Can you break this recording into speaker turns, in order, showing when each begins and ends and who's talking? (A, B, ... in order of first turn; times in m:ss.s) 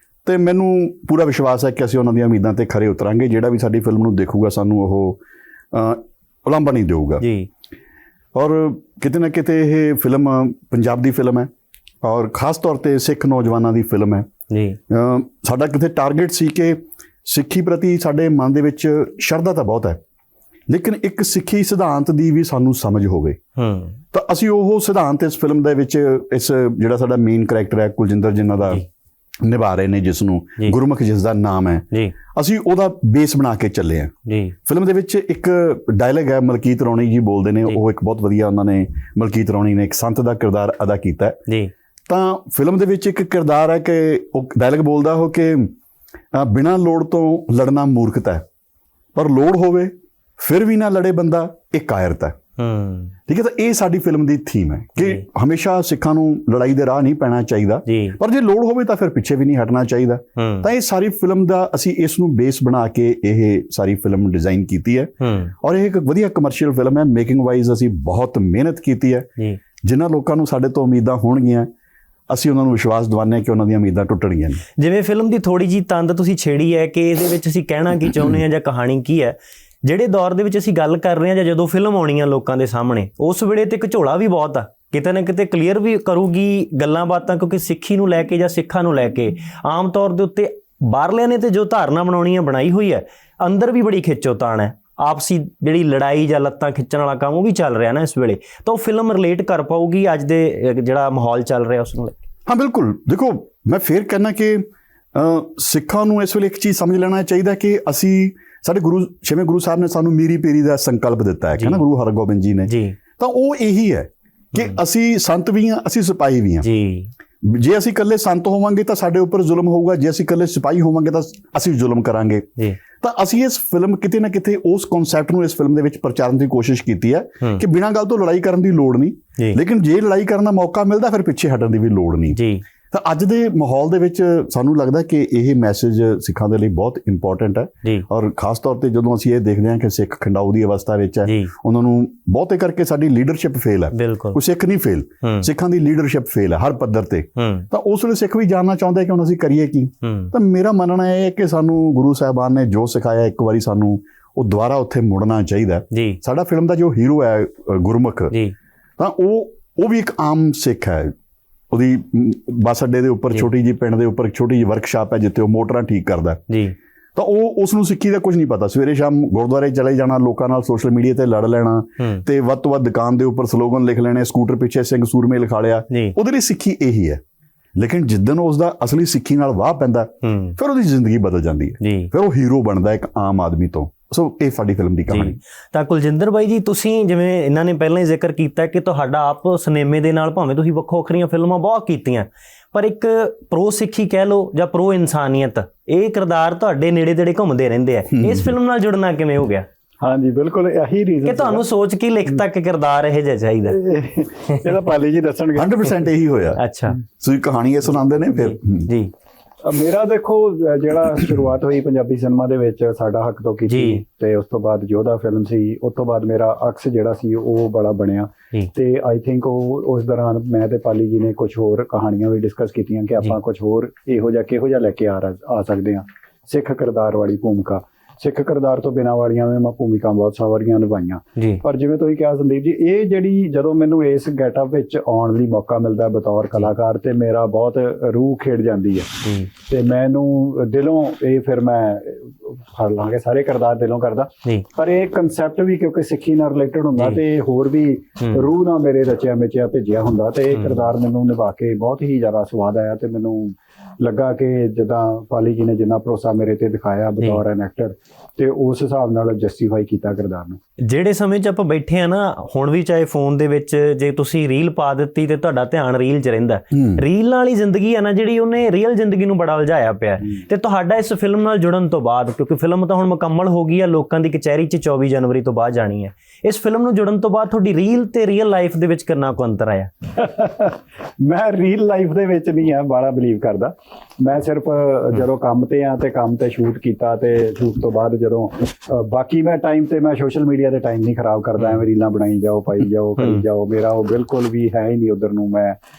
0:00.2-0:05.2 A
0:05.7-0:07.2 A
0:07.2-0:07.5 B
0:08.3-0:11.5 A
0:12.0-0:14.3 A
0:14.5-0:14.8 B
0:14.9-0:20.0 A
0:20.7-0:23.4 A
0:23.6-0:24.0 B
0:24.1-0:28.8 A
0:29.4-0:34.1 A
0:34.3-0:34.5 B
0:34.6-0:41.4 A
0:42.1-0:45.7 A
0:46.3-0:48.4 A
0:49.1-0:52.4 A
0:52.6-0:53.1 B
0:53.3-1:09.3 A
0:57.9-0:58.2 B
1:00.4-1:00.7 B
1:05.2-1:05.5 B
1:09.8-1:11.7 A
1:12.3-1:14.6 A
1:14.8-1:42.2 B
1:42.5-1:56.7 A
1:51.6-1:51.8 B
1:52.7-1:53.0 B
1:56.6-1:57.1 B
1:57.4-2:38.4 A
2:12.3-2:12.6 B
2:21.2-2:21.5 B
2:23.9-2:24.4 B
2:27.4-2:27.7 B
2:30.0-2:30.3 B
2:35.9-2:36.2 B
2:39.0-2:41.1 A
2:41.7-2:46.4 A
2:46.5-2:46.7 B
2:47.1-2:57.2 A
2:57.8-3:05.4 A
3:00.2-3:00.6 B
3:01.8-3:02.1 B
3:05.1-3:19.6 B
3:18.1-3:18.5 A
3:20.0-3:21.6 C
3:21.2-3:23.8 B
3:23.6-3:26.0 C
3:25.6-3:28.9 A
3:26.6-3:27.0 B
3:28.5-3:29.1 B
3:29.6-4:20.6 C
3:33.7-3:34.0 B
3:51.4-3:51.6 B
3:59.2-3:59.5 B
4:08.2-4:08.5 B
4:10.5-4:10.9 B
4:20.8-4:39.9 B
4:26.7-4:27.0 A
4:40.2-4:55.8 C